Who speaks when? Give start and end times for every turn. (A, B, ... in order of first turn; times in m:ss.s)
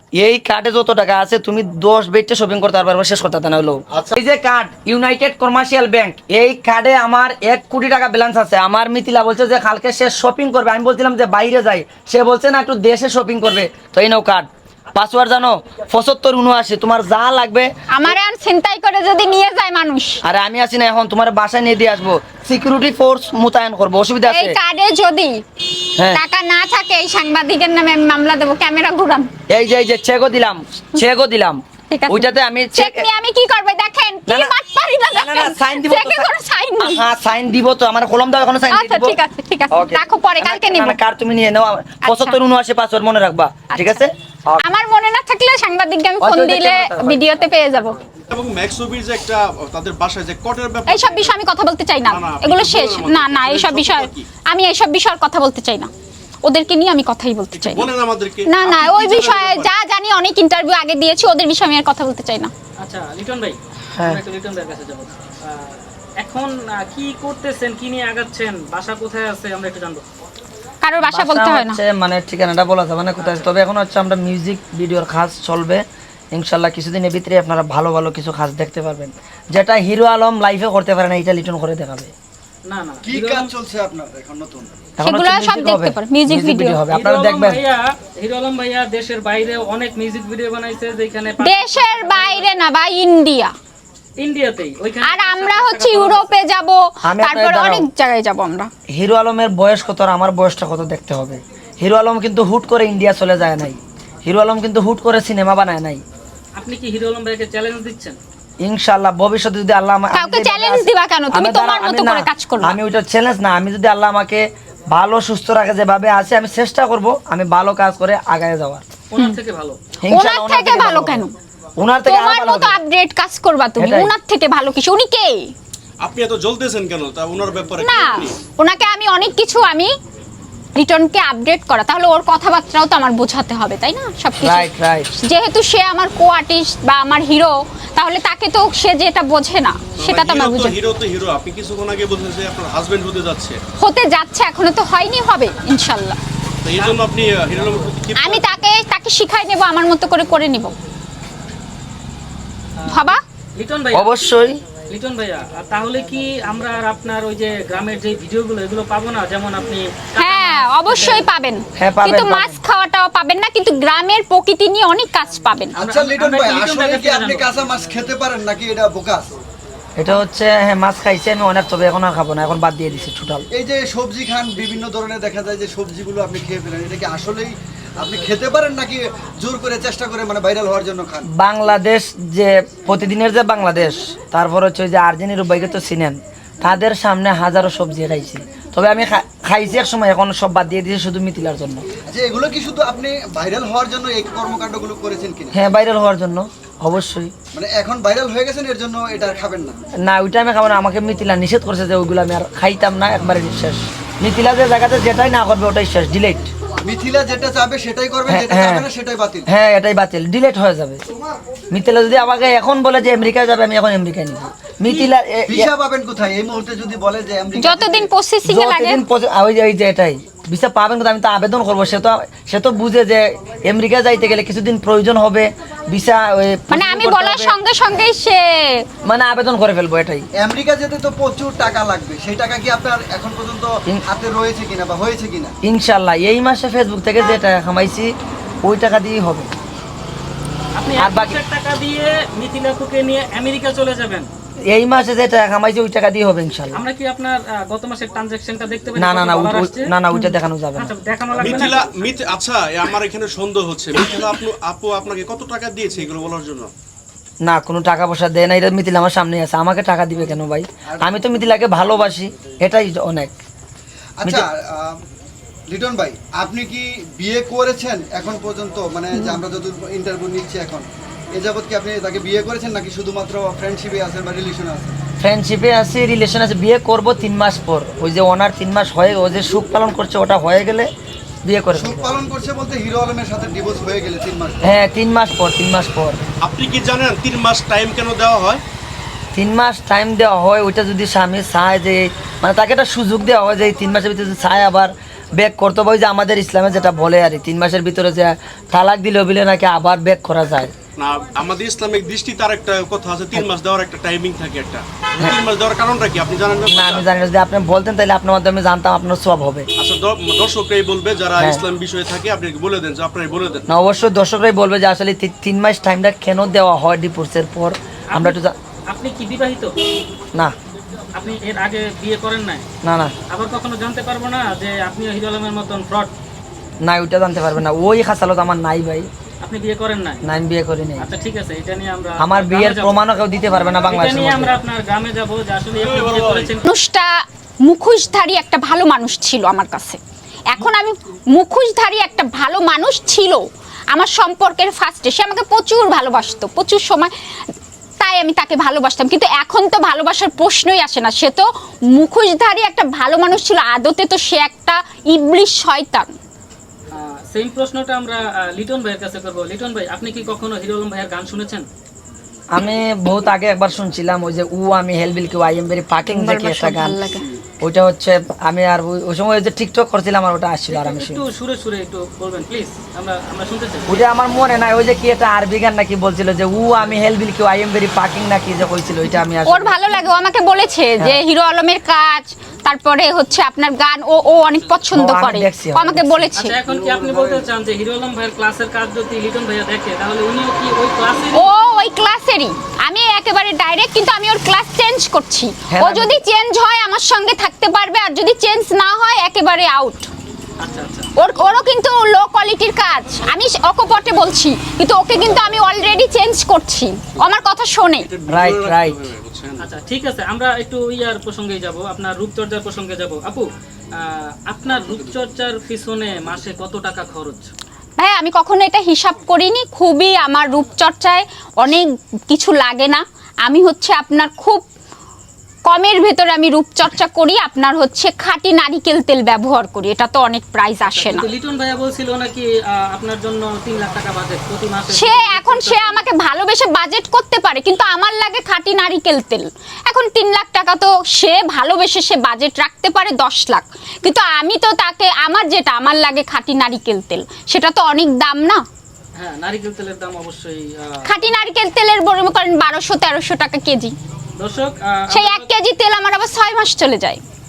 0:00.2-0:17.7 A
0:17.9-0:20.2 B
0:20.2-0:24.6 A
0:24.2-0:29.3 B
0:26.0-0:26.2 A
0:29.5-0:33.1 A
0:31.9-0:37.1 B
0:34.3-0:34.5 A
0:35.1-0:39.2 A
0:38.7-0:41.0 B
0:39.7-0:44.7 A
0:42.0-0:42.4 B
0:43.7-0:44.0 B
0:44.6-0:48.0 B
0:46.2-0:47.2 A
0:48.3-0:51.3 C
0:50.9-0:55.9 B
0:52.0-0:54.3 C
0:56.4-0:57.9 B
0:57.6-0:59.7 C
0:58.5-1:02.5 B
1:02.8-1:10.0 D
1:10.8-1:11.8 B
1:11.0-1:22.1 A
1:13.2-1:13.5 D
1:22.7-1:23.5 D
1:23.0-1:24.7 E
1:25.0-1:27.6 A
1:25.0-1:26.8 B
1:26.9-1:32.4 D
1:31.4-1:33.5 B
1:34.2-1:36.3 D
1:35.0-1:38.7 B
1:37.0-1:37.9 A
1:39.0-1:46.0 A
1:46.6-1:48.2 D
1:48.6-1:58.8 A
1:50.1-1:52.8 B
1:59.1-1:59.8 D
2:00.0-2:01.2 A
2:00.1-2:01.3 B
2:01.8-2:02.8 A
2:02.1-2:05.5 B
2:03.8-2:04.1 A
2:06.0-2:08.4 C
2:07.8-2:09.9 B
2:10.8-2:20.8 B
2:14.4-2:15.1 A
2:20.0-2:23.6 C
2:23.8-2:26.2 B
2:26.6-2:28.5 C
2:28.2-2:30.8 B
2:32.8-2:34.1 D
2:32.9-2:33.2 B
2:33.9-2:34.6 A
2:34.9-2:41.2 D
2:40.2-2:45.8 B
2:41.8-2:42.6 A
2:45.8-2:49.3 E
2:45.8-2:47.5 D
2:50.0-2:53.4 A
2:53.5-3:01.3 E
3:01.4-3:11.8 A
3:12.1-3:15.6 E
3:15.5-3:17.3 A
3:17.5-3:19.8 E
3:20.1-3:26.5 A
3:26.8-3:29.5 E
3:28.3-3:28.9 A
3:29.5-3:31.0 A
3:31.7-3:35.7 A
3:35.5-3:38.1 E
3:37.6-3:39.0 B
3:38.5-3:47.6 A
3:46.7-3:48.9 B
3:49.0-3:50.2 A
3:50.4-3:55.6 E
3:55.6-3:58.1 A
3:58.6-3:59.5 A
4:00.8-4:04.3 D
4:01.0-4:01.4 A
4:04.7-4:06.8 A
4:06.7-4:09.9 D
4:09.0-4:10.9 A
4:10.8-4:11.9 D
4:11.4-4:16.7 C
4:17.4-4:23.3 A
4:20.9-4:21.2 E
4:24.2-4:25.0 E
4:25.7-4:35.0 E
4:35.2-4:40.9 A
4:41.5-4:42.1 A
4:41.7-4:44.6 E
4:44.6-4:46.2 A
4:46.4-4:48.6 C
4:49.4-5:00.7 A
5:01.0-5:07.1 C
5:06.7-5:09.7 A
5:09.8-5:13.6 C
5:13.7-5:18.6 A
5:18.1-5:19.8 D
5:21.2-5:22.6 D
5:22.8-5:23.1 A
5:23.3-5:26.1 D
5:26.8-5:29.1 A
5:29.4-5:30.2 D
5:30.2-5:31.1 A
5:31.0-5:33.0 D
5:32.2-5:34.6 A
5:33.6-5:36.7 D
5:35.8-5:36.5 C
5:36.6-5:47.1 B
5:48.0-5:56.1 B
5:57.0-6:01.7 D
6:02.5-6:11.2 A
6:06.1-6:07.3 B
6:10.7-6:14.0 D
6:13.9-6:19.8 A
6:19.4-6:26.6 B
6:24.9-6:26.3 A
6:26.4-6:31.5 D
6:26.6-6:27.5 E
6:31.3-6:40.1 B
6:35.7-6:36.1 A
6:40.6-6:41.1 D
6:41.2-6:48.1 B
6:48.0-6:49.7 C
6:48.3-6:49.0 A
6:49.6-6:57.5 D
6:58.0-7:04.6 B
7:05.7-7:11.3 B
7:10.9-7:16.0 D
7:14.9-7:28.6 B
7:29.2-7:31.1 D
7:31.0-7:34.0 B
7:34.4-7:35.5 D
7:35.1-7:37.2 B